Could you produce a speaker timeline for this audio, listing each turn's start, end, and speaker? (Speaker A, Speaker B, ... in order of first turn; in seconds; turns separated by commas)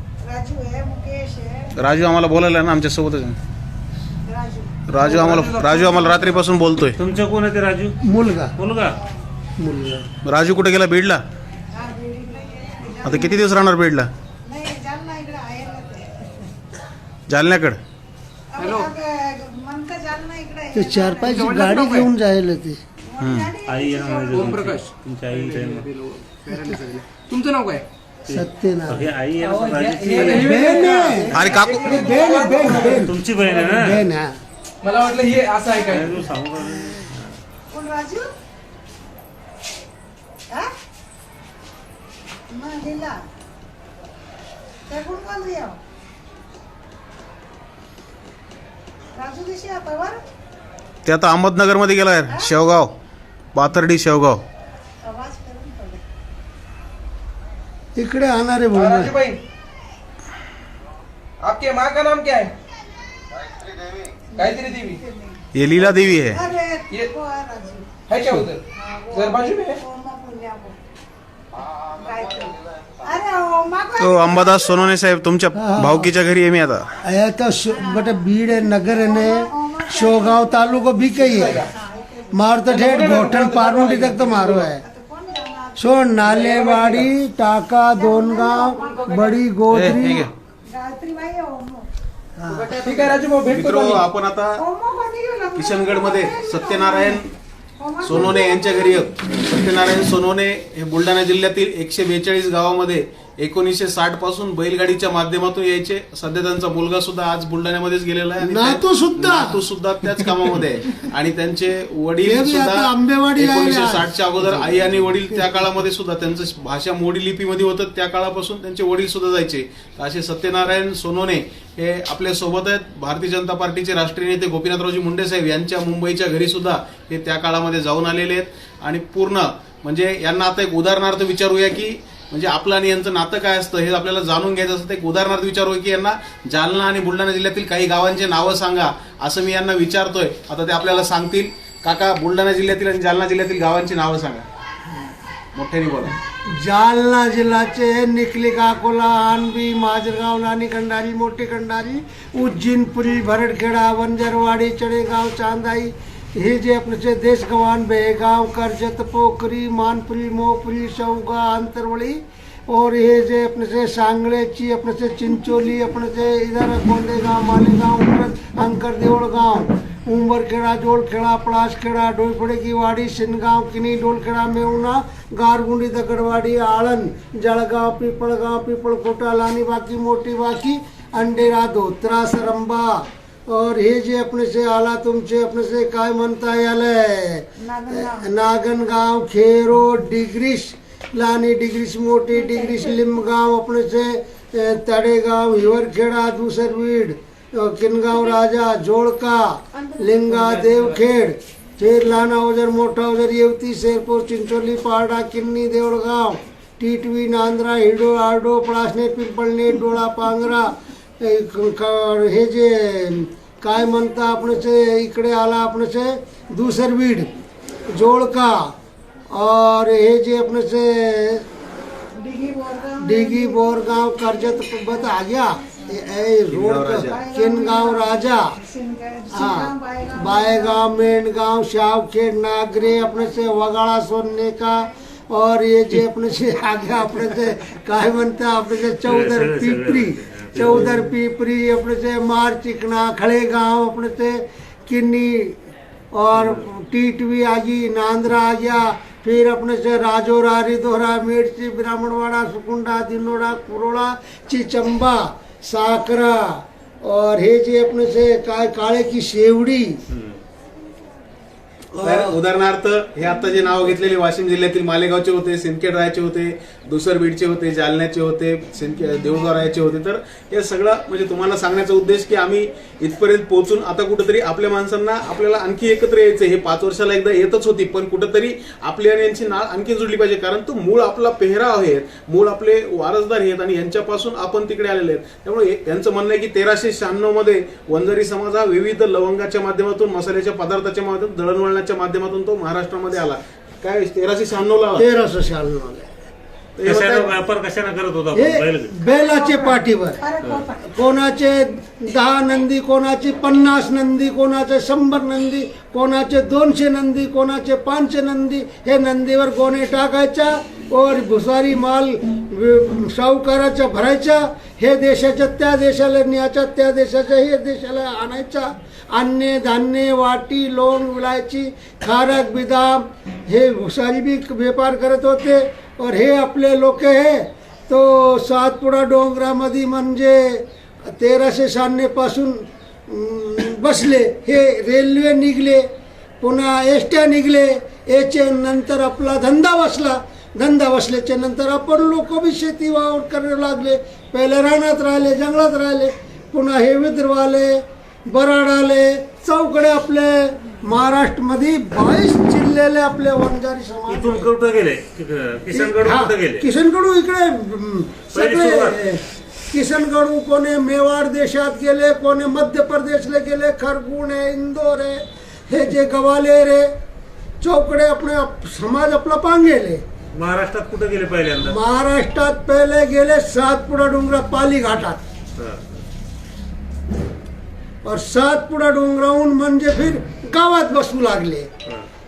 Speaker A: 0.2-1.7, Speaker B: 1.8-3.4, Speaker A: 4.2-4.8, Speaker B: 4.9-7.0, Speaker C: 5.0-6.4, Speaker D: 7.0-8.0, Speaker E: 8.0-8.5, Speaker D: 8.6-9.0, Speaker E: 9.6-10.1, Speaker B: 10.2-11.2, Speaker A: 11.7-13.4, Speaker B: 13.0-14.1, Speaker A: 14.4-16.5, Speaker B: 17.3-17.8, Speaker A: 18.5-21.7, Speaker C: 18.6-18.9, Speaker E: 20.7-22.8, Speaker C: 21.3-22.1, Speaker A: 23.0-24.7, Speaker B: 23.2-23.5, Speaker D: 23.6-25.9, Speaker C: 24.3-27.9, Speaker E: 26.5-26.8, Speaker D: 28.3-30.6, Speaker E: 28.3-34.3, Speaker C: 29.7-33.7, Speaker B: 31.3-32.1, Speaker D: 31.4-31.9, Speaker A: 32.2-33.0, Speaker D: 32.9-34.0, Speaker C: 34.8-36.3, Speaker A: 35.7-36.0, Speaker D: 35.9-37.4, Speaker A: 37.7-38.3, Speaker A: 42.5-43.1, Speaker A: 44.9-45.8, Speaker A: 49.1-50.2, Speaker B: 51.0-52.9, Speaker B: 53.5-54.4, Speaker A: 55.0-56.0, Speaker E: 58.0-59.1, Speaker C: 58.7-59.4, Speaker C: 61.4-62.5, Speaker C: 64.3-65.0, Speaker A: 64.3-65.4, Speaker B: 65.5-66.4, Speaker A: 66.3-68.0, Speaker C: 68.1-69.8, Speaker A: 68.7-70.8, Speaker A: 71.9-74.9, Speaker B: 74.0-76.9, Speaker E: 75.5-76.1, Speaker E: 77.0-81.6, Speaker A: 77.7-81.0, Speaker C: 81.0-81.7, Speaker A: 81.6-82.4, Speaker E: 82.3-84.8, Speaker C: 82.7-84.7, Speaker A: 84.7-86.3, Speaker E: 85.8-90.3, Speaker C: 86.2-87.1, Speaker A: 87.9-89.4, Speaker C: 88.8-89.3, Speaker B: 89.7-90.3, Speaker A: 90.7-91.9, Speaker E: 92.4-92.8, Speaker C: 92.7-94.0, Speaker A: 92.8-93.2, Speaker B: 93.5-94.6, Speaker A: 94.6-99.0, Speaker B: 95.5-97.3, Speaker B: 98.0-144.4, Speaker E: 108.4-109.6, Speaker E: 112.2-114.1, Speaker C: 114.5-114.8, Speaker B: 145.5-146.1, Speaker E: 146.5-217.3, Speaker A: 187.6-188.3, Speaker E: 217.9-218.7, Speaker E: 219.3-221.4, Speaker A: 222.1-224.0, Speaker E: 223.0-228.5, Speaker B: 226.5-227.2, Speaker A: 227.0-230.9, Speaker E: 229.3-245.6, Speaker D: 239.1-241.0, Speaker B: 240.6-240.9, Speaker E: 246.1-260.0, Speaker D: 246.3-246.6, Speaker B: 260.1-260.4, Speaker E: 261.9-262.4, Speaker B: 262.0-295.0, Speaker E: 295.0-296.1, Speaker B: 296.8-297.3, Speaker D: 296.8-298.9, Speaker E: 298.3-300.2, Speaker A: 299.1-300.9, Speaker E: 300.8-335.9, Speaker E: 336.4-354.5, Speaker D: 354.1-356.6, Speaker E: 355.7-366.9, Speaker D: 358.3-359.0, Speaker E: 367.6-370.0, Speaker D: 370.3-371.8, Speaker E: 371.6-375.2, Speaker D: 375.6-376.0, Speaker E: 378.0-381.7